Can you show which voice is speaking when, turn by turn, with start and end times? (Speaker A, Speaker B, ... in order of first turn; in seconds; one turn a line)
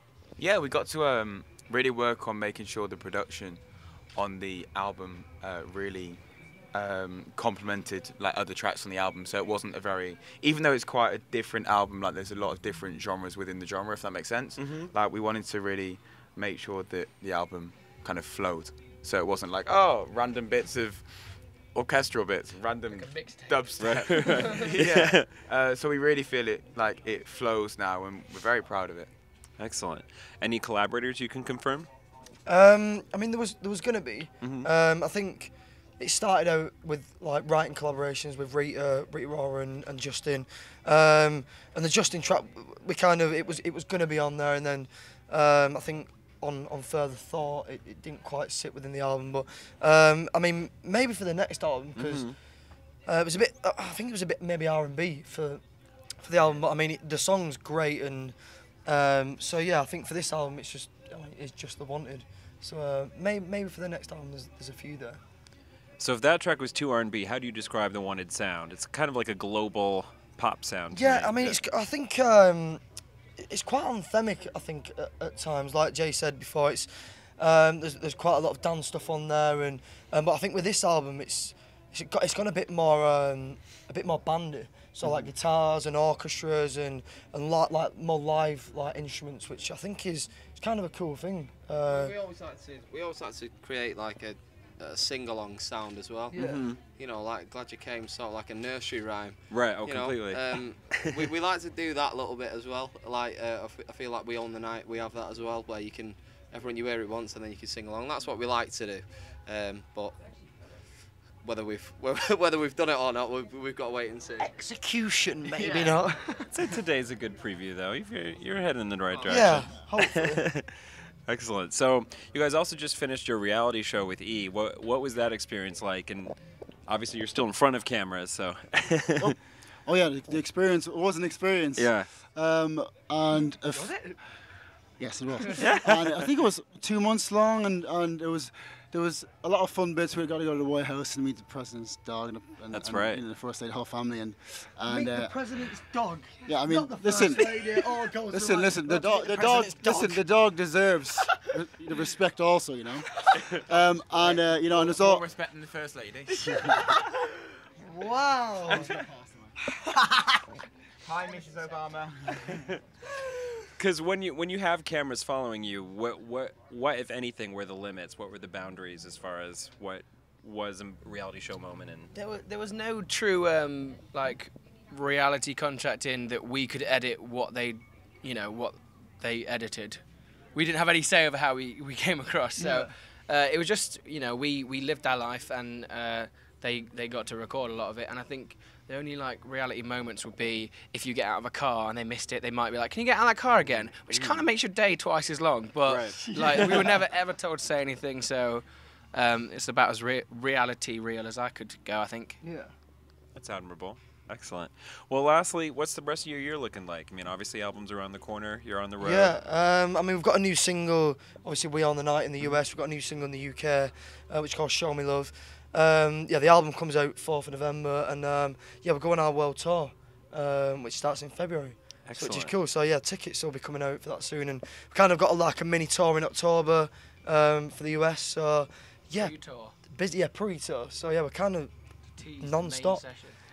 Speaker A: 0.4-29.1
Speaker B: 14.6-14.9
Speaker C: 22.9-23.6
Speaker B: 23.8-25.3
Speaker C: 24.2-24.7
Speaker B: 29.6-31.9
Speaker D: 32.5-52.3
Speaker B: 34.4-34.7
Speaker B: 52.0-52.3
Speaker D: 53.0-55.6
Speaker D: 56.2-58.3
Speaker D: 58.9-65.2
Speaker B: 66.0-71.6
Speaker D: 70.9-72.8
Speaker D: 73.4-92.1
Speaker E: 91.9-96.4
Speaker B: 96.3-96.8
Speaker D: 96.3-96.6
Speaker E: 97.0-110.2
Speaker B: 99.5-101.3
Speaker E: 111.4-114.5
Speaker D: 114.4-116.5
Speaker B: 116.5-120.6
Speaker E: 119.1-119.5
Speaker D: 119.3-120.5
Speaker B: 121.3-126.3
Speaker B: 126.9-129.3
Speaker F: 129.2-133.9
Speaker B: 131.8-132.1
Speaker C: 133.7-134.2
Speaker F: 135.0-145.4
Speaker B: 135.6-136.2
Speaker B: 142.7-143.2
Speaker D: 144.9-150.2
Speaker F: 146.5-155.2
Speaker A: 154.2-156.8
Speaker D: 156.4-159.1
Speaker A: 161.0-162.7
Speaker B: 163.8-172.1
Speaker C: 172.1-180.0
Speaker C: 180.5-202.4
Speaker D: 182.6-182.9
Speaker B: 194.1-194.4
Speaker B: 195.8-196.4
Speaker D: 196.2-197.0
Speaker D: 202.4-202.7
Speaker B: 203.3-209.4
Speaker D: 209.0-229.3
Speaker B: 222.1-222.5
Speaker C: 229.1-229.8
Speaker D: 229.8-231.7
Speaker C: 232.2-233.4
Speaker D: 232.4-233.0